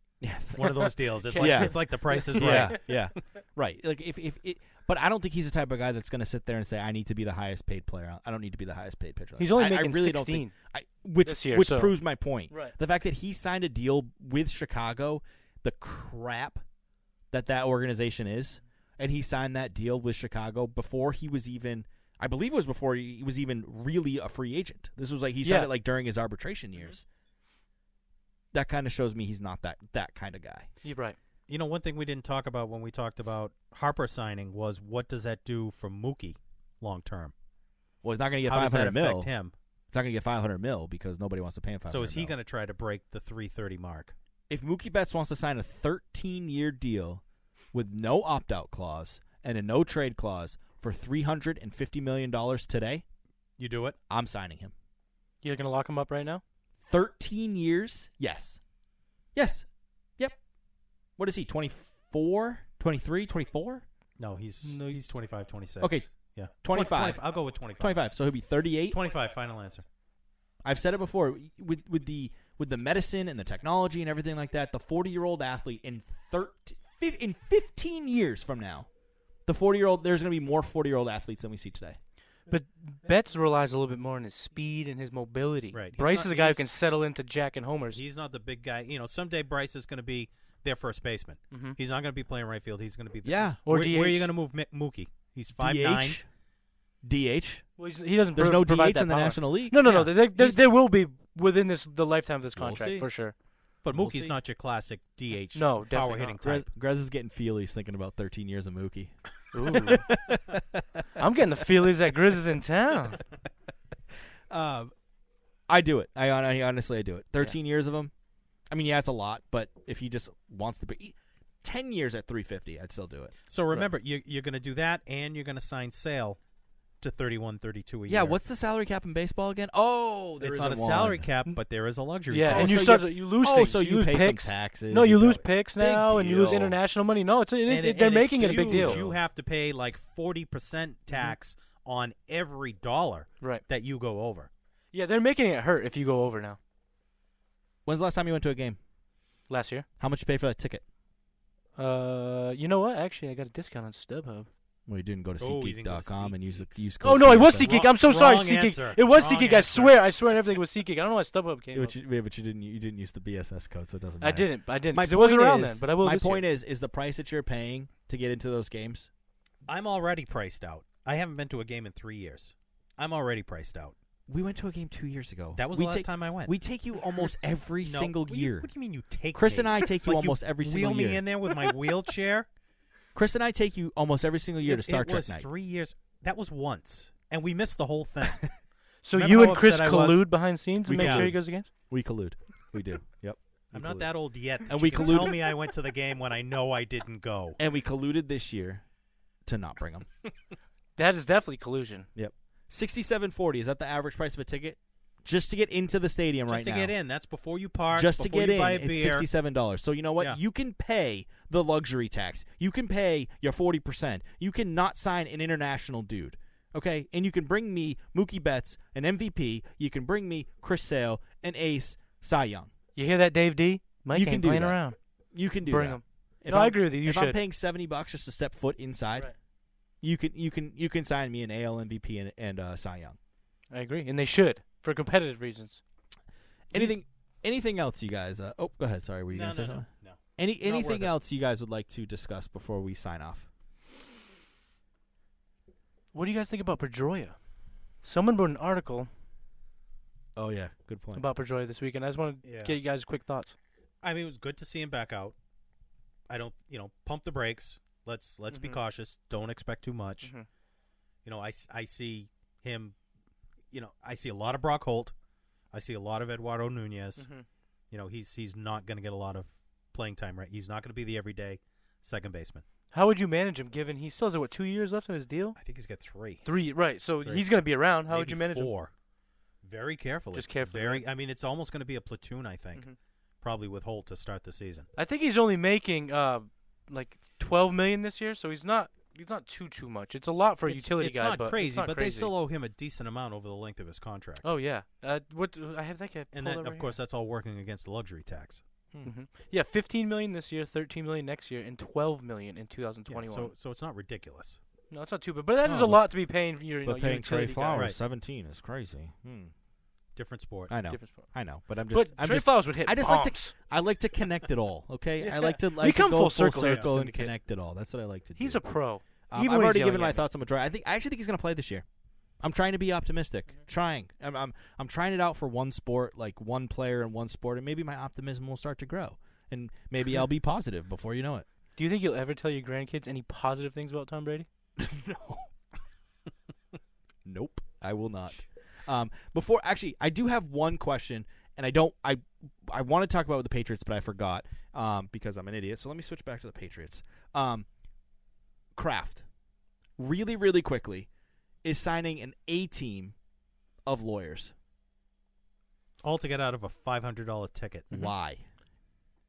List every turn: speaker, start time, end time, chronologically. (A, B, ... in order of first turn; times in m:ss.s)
0:00.2-0:16.6 A
0:00.5-0:03.0 B
0:01.2-0:02.8 C
0:09.4-0:10.5 C
0:11.2-0:12.0 C
0:12.5-0:12.7 C
0:17.3-0:27.0 A
0:25.4-0:25.7 C
0:28.5-0:30.7 A
0:30.8-0:31.2 C
0:31.5-0:37.3 B
0:38.0-0:39.3 A
0:38.4-0:39.5 B
0:39.9-0:42.3 A
0:41.9-0:44.1 B
0:44.5-0:47.2 A
0:47.7-0:53.0 A
0:53.6-0:54.0 B
0:54.1-0:54.7 A
0:55.4-0:56.4 C
0:56.8-0:58.6 A
0:59.3-0:59.6 A
1:01.2-1:03.8 A
1:04.2-1:08.0 B
1:04.6-1:05.0 C
1:05.8-1:07.2 A
1:07.7-1:09.0 A
1:08.9-1:09.8 B
1:10.6-1:18.9 A
1:19.4-1:22.0 A
1:22.5-1:28.0 C
1:25.7-1:26.7 B
1:27.9-1:36.2 B
1:31.5-1:31.8 C
1:33.2-1:33.6 A
1:33.6-1:34.3 C
1:35.6-1:36.3 A
1:37.0-1:37.6 A
1:37.8-1:43.3 C
1:38.3-1:40.6 A
1:39.8-1:40.1 B
1:42.5-1:43.1 A
1:43.8-1:46.6 B
1:43.9-1:44.4 A
1:45.5-1:46.4 C
1:46.4-1:51.0 A
1:49.5-1:50.0 C
1:51.2-1:53.2 C
1:54.5-1:54.9 A
1:55.7-1:58.1 A
1:58.7-2:03.9 A
2:03.5-2:06.4 B
2:07.0-2:08.4 B
2:08.1-2:11.3 A
2:10.4-2:12.8 B
2:12.3-2:19.0 C
2:12.5-2:16.8 A
2:17.6-2:24.5 B
2:18.5-2:19.2 A
2:24.9-2:26.6 C
2:27.8-2:28.8 A
2:29.5-2:29.8 C
2:30.0-2:30.8 A
2:31.8-2:34.5 C
2:34.9-2:37.8 A
2:35.4-2:40.0 B
2:37.0-2:41.9 C
2:41.7-2:49.1 A
2:44.2-2:46.4 C
2:49.7-2:54.0 B
2:54.3-2:58.7 A
2:55.6-2:56.5 B
2:57.8-3:02.5 B
2:59.3-3:01.2 A
3:03.1-3:05.5 A
3:04.6-3:08.5 B
3:09.0-3:11.7 C
3:09.1-3:10.3 B
3:10.8-3:14.1 A
3:10.9-3:11.3 B
3:13.7-3:17.6 B
3:14.6-3:15.6 A
3:17.6-3:18.8 A
3:19.4-3:20.1 A
3:21.0-3:22.1 C
3:22.1-3:26.9 A
3:26.5-3:29.2 B
3:27.9-3:42.7 A
3:43.0-3:45.0 C
3:44.1-3:44.8 A
3:45.3-3:49.3 A
3:45.7-3:47.4 C
3:50.0-3:53.2 A
3:53.7-3:55.8 C
3:56.7-4:03.5 A
3:59.3-4:01.1 B
4:06.1-4:07.4 C
4:08.0-4:09.1 C
4:10.4-4:11.2 A
4:11.1-4:13.5 C
4:12.4-4:12.8 B
4:14.0-4:15.3 B
4:16.3-4:20.3 B
4:18.5-4:18.8 C
4:21.2-4:23.0 B
4:23.7-4:25.1 B
4:25.7-4:27.2 B
4:27.2-4:27.4 C
4:27.9-4:32.6 B
4:32.9-4:35.6 C
4:35.6-4:36.4 B
4:36.4-4:38.7 C
4:37.2-4:37.5 B
4:38.1-4:38.9 B
4:39.6-4:42.9 B
4:40.3-4:41.0 C
4:43.4-4:44.9 B
4:45.0-4:52.3 C
4:50.6-4:54.5 B
4:54.4-4:57.0 C
4:56.3-4:58.6 B
4:59.0-5:03.5 C
5:03.1-5:04.6 B
5:04.9-5:07.9 C
5:05.6-5:06.0 A
5:06.8-5:09.5 A
5:07.7-5:08.0 B
5:10.1-5:10.7 B
5:10.7-5:18.6 A
5:10.9-5:11.3 C
5:11.9-5:13.5 C
5:15.2-5:17.3 C
5:18.4-5:20.2 C
5:19.3-5:21.8 A
5:22.4-5:31.4 A
5:31.8-5:34.5 C
5:34.8-5:35.5 A
5:37.2-5:47.6 A
5:48.7-5:49.2 A
5:50.0-5:51.1 A
5:51.6-5:53.1 A
5:53.8-5:54.5 A
5:56.0-5:57.9 B
5:57.9-5:58.4 A